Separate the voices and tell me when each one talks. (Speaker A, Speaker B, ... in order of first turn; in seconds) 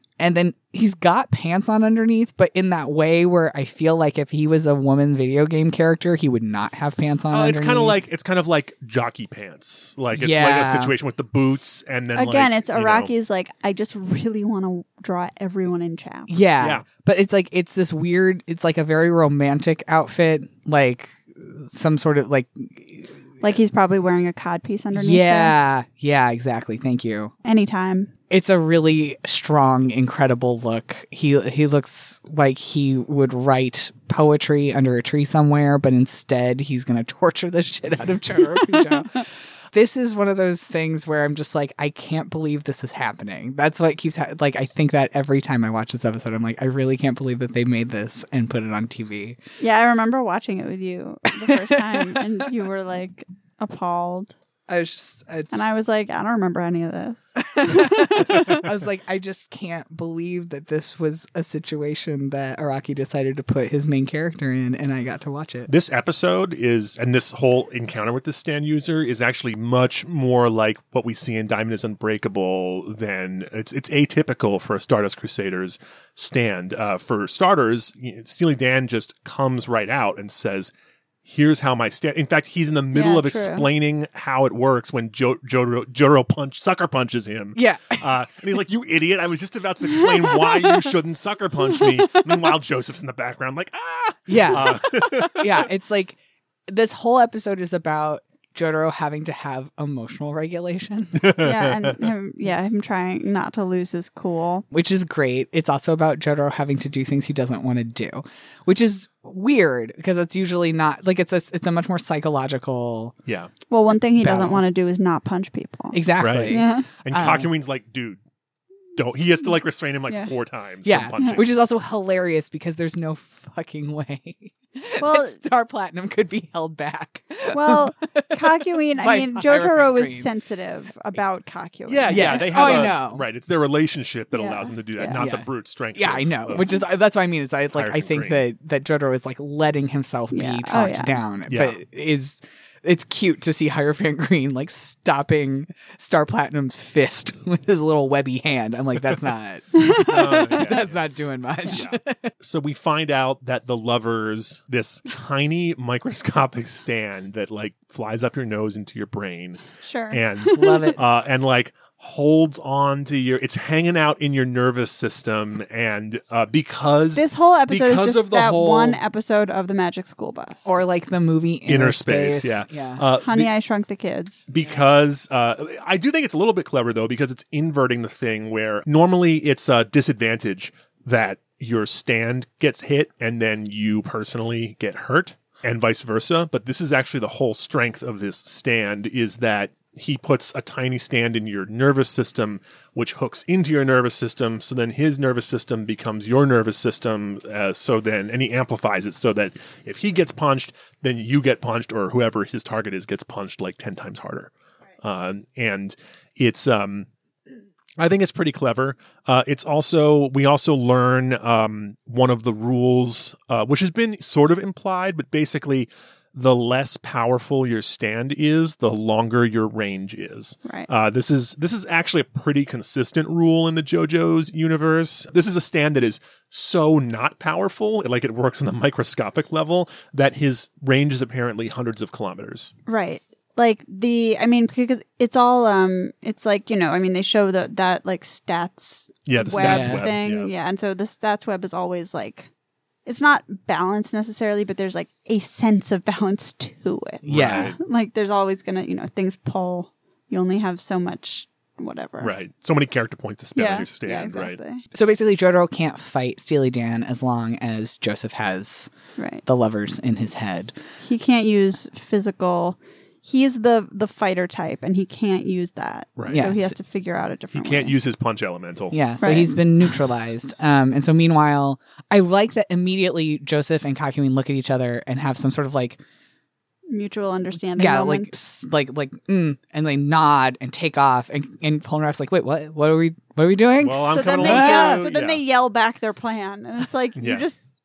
Speaker A: 0.2-8.0, 10.1-10.9, 16.3-23.1, 24.9-27.3, 28.3-49.4, 51.4-52.4, 54.7-55.6, 57.4-65.7, 87.5-88.1, 94.3-101.3, 104.7-113.1, 114.2-114.6, 115.9-117.5, 120.8-130.3, 132.1-133.2, 135.1-152.3, 160.5-161.0, 170.6-173.0, 239.5-240.1, 247.2-247.7, 254.9-258.9, 259.4-260.7, 266.3-266.8, 268.9-276.0, 277.8-285.1
Speaker B: 7.3-13.1, 16.6-16.9, 65.7-80.7, 81.2-95.7, 101.2-102.0, 116.2-118.2, 119.0-121.4, 131.9-136.7, 137.7-138.4, 141.5-141.8, 150.1-151.0, 151.7-169.0, 171.7-173.5, 174.5-204.5, 205.0-207.1, 208.0-232.7, 239.3-240.5, 247.2-247.8, 252.2-254.6, 266.2-266.4, 267.5-268.9, 283.8-285.4, 287.2-287.4
Speaker C: 12.1-16.3, 23.4-25.5, 27.4-28.1, 38.5-39.0, 49.6-54.3, 55.5-58.6, 82.9-83.7, 90.0-90.8, 91.8-92.3, 101.4-104.6, 113.7-116.9, 125.0-125.4, 127.5-132.9, 134.3-135.2, 140.3-141.2, 149.7-150.7, 159.8-160.9, 167.1-170.8, 173.2-174.5, 232.9-242.5, 243.1-252.3, 253.6-254.8, 259.2-259.4, 261.0-267.9, 269.2-269.6, 276.9-278.3, 284.1-287.6